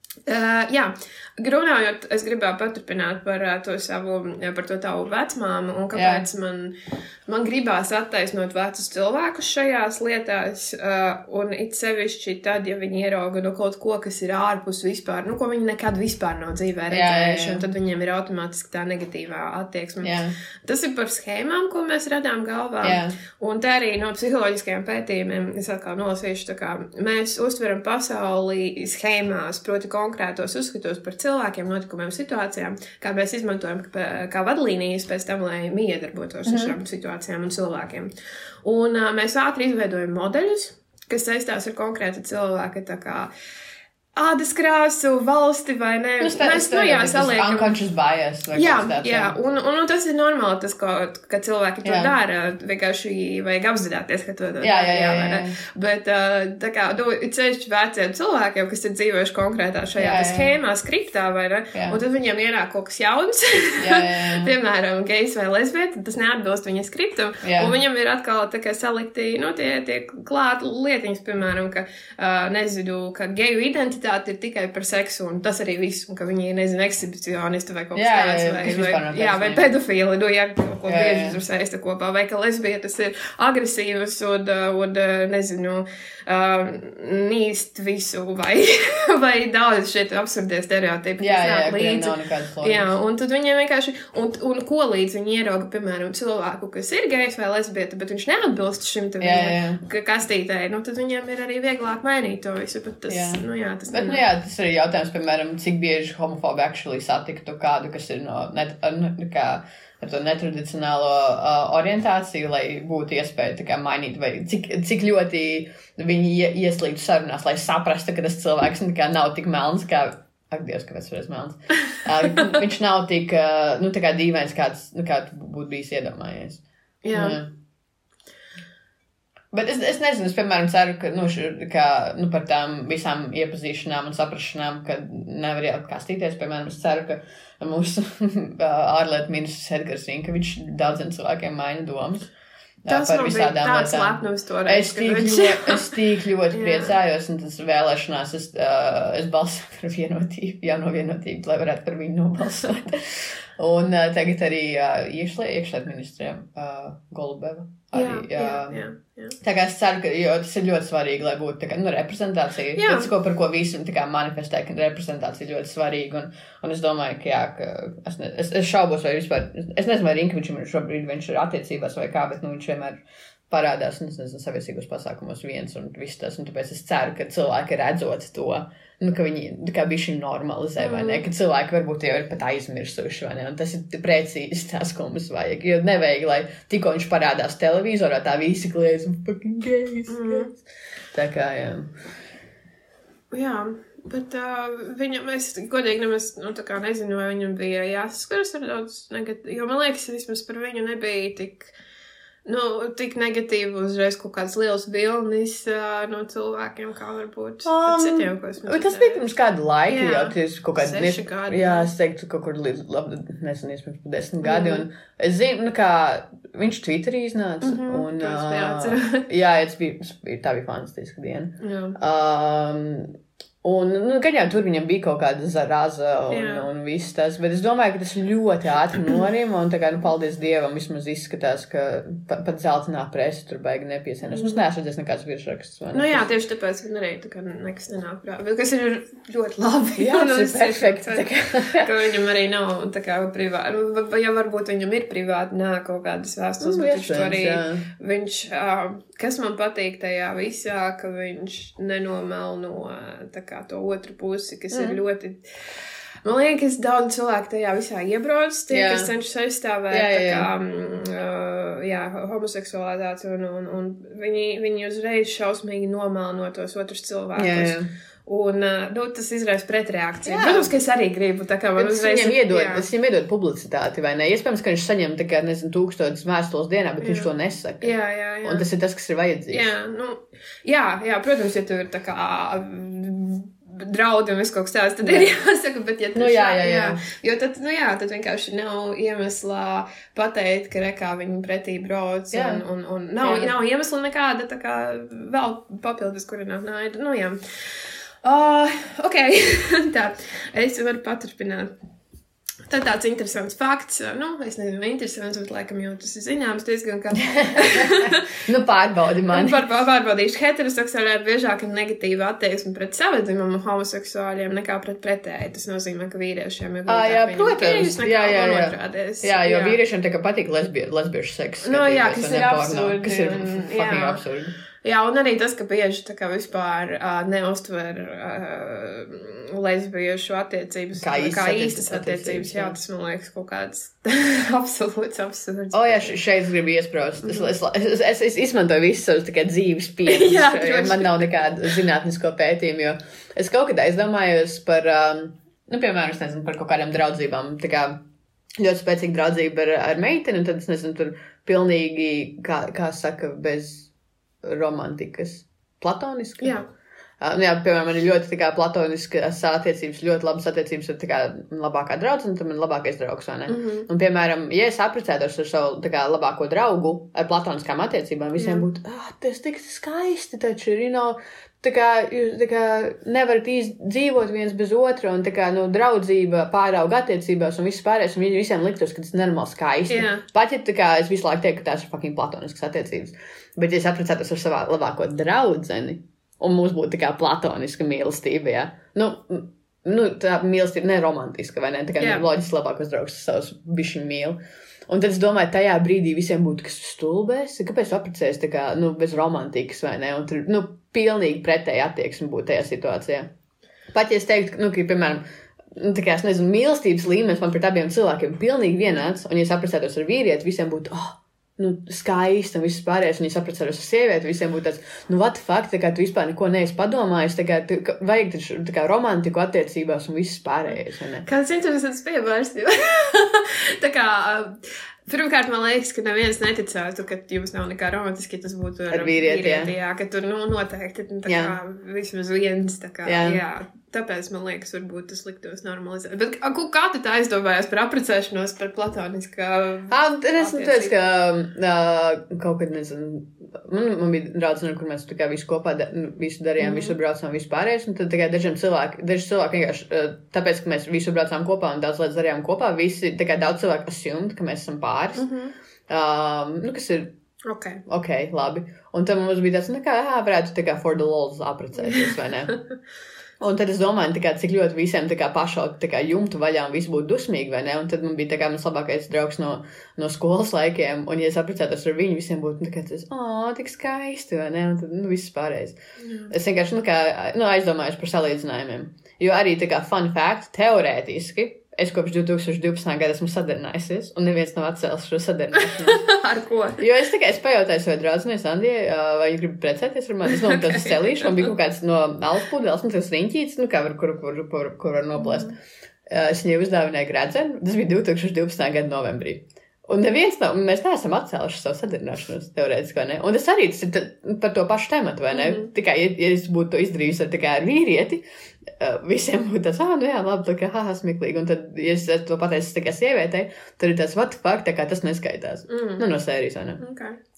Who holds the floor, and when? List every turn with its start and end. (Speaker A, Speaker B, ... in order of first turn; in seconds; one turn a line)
Speaker A: 0.3-6.7
Speaker B: 5.9-6.2
Speaker A: 7.3-38.1
Speaker B: 16.9-17.6
Speaker B: 20.0-20.3
Speaker B: 22.8-23.2
Speaker B: 36.5-36.7
Speaker A: 38.6-43.3
Speaker A: 44.1-47.7
Speaker B: 46.2-49.3
Speaker A: 48.5-104.2
Speaker B: 51.8-52.1
Speaker B: 54.6-55.5
Speaker B: 60.0-60.5
Speaker B: 61.7-62.0
Speaker B: 63.8-64.5
Speaker B: 67.4-67.7
Speaker B: 77.9-79.7
Speaker B: 80.9-81.4
Speaker B: 91.2-92.9
Speaker B: 99.2-99.8
Speaker B: 103.1-127.5
Speaker A: 121.9-122.5
Speaker A: 127.0-127.4
Speaker B: 129.5-142.3
Speaker B: 142.8-158.8
Speaker A: 142.9-146.0
Speaker A: 146.5-146.9
Speaker A: 157.9-159.3
Speaker B: 159.4-190.6
Speaker A: 162.8-163.1
Speaker A: 180.8-181.2
Speaker A: 190.1-190.5
Speaker B: 191.1-191.9
Speaker A: 193.3-201.7
Speaker A: 202.4-209.2
Speaker B: 207.6-223.1
Speaker A: 209.8-211.9
Speaker A: 214.4-214.8
Speaker A: 217.6-219.2
Speaker A: 221.6-222.0
Speaker B: 223.6-236.2
Speaker A: 226.3-226.7
Speaker A: 234.2-234.6
Speaker A: 235.9-255.4
Speaker B: 240.0-241.9
Speaker B: 246.6-247.8
Speaker B: 254.7-255.0
Speaker A: 256.2-272.9
Speaker B: 258.7-259.1
Speaker B: 259.9-260.5
Speaker B: 267.4-267.9
Speaker B: 270.2-270.7
Speaker B: 271.8-277.9
Speaker A: 277.0-278.6
Speaker B: 278.4-279.7
Speaker A: 279.5-297.4
Speaker B: 285.0-285.3
Speaker B: 286.1-287.0
Speaker B: 292.3-292.6
Speaker B: 293.2-293.5
Speaker A: 298.2-301.7
Speaker A: 302.7-308.3
Speaker B: 307.8-309.6
Speaker A: 309.3-319.8
Speaker B: 316.9-324.5
Speaker A: 321.6-324.2
Speaker A: 324.8-336.2
Speaker B: 331.0-332.8
Speaker B: 335.7-348.0
Speaker A: 337.2-337.5
Speaker A: 340.1-341.8
Speaker B: 348.6-353.9
Speaker B: 354.4-356.6
Speaker A: 356.4-356.6
Speaker B: 357.2-403.3
Speaker A: 363.5-363.9
Speaker A: 368.4-368.6
Speaker A: 379.9-380.2
Speaker A: 392.0-392.2
Speaker B: 403.9-405.2
Speaker B: 405.7-421.2
Speaker A: 421.2-440.9
Speaker B: 428.9-429.7
Speaker B: 431.2-431.5
Speaker B: 433.0-433.4
Speaker B: 439.9-455.3
Speaker A: 446.6-446.9
Speaker A: 455.1-455.5
Speaker B: 455.9-457.1
Speaker A: 457.4-457.8
Speaker B: 457.9-462.6
Speaker A: 461.8-462.6
Speaker B: 463.4-475.8
Speaker A: 476.0-476.3
Speaker B: 476.3-486.1
Speaker A: 485.6-486.8
Speaker B: 486.8-495.5
Speaker A: 490.3-490.9
Speaker A: 495.2-495.5
Speaker B: 496.1-516.8
Speaker A: 505.3-505.7
Speaker A: 515.7-516.0
Speaker A: 516.8-517.2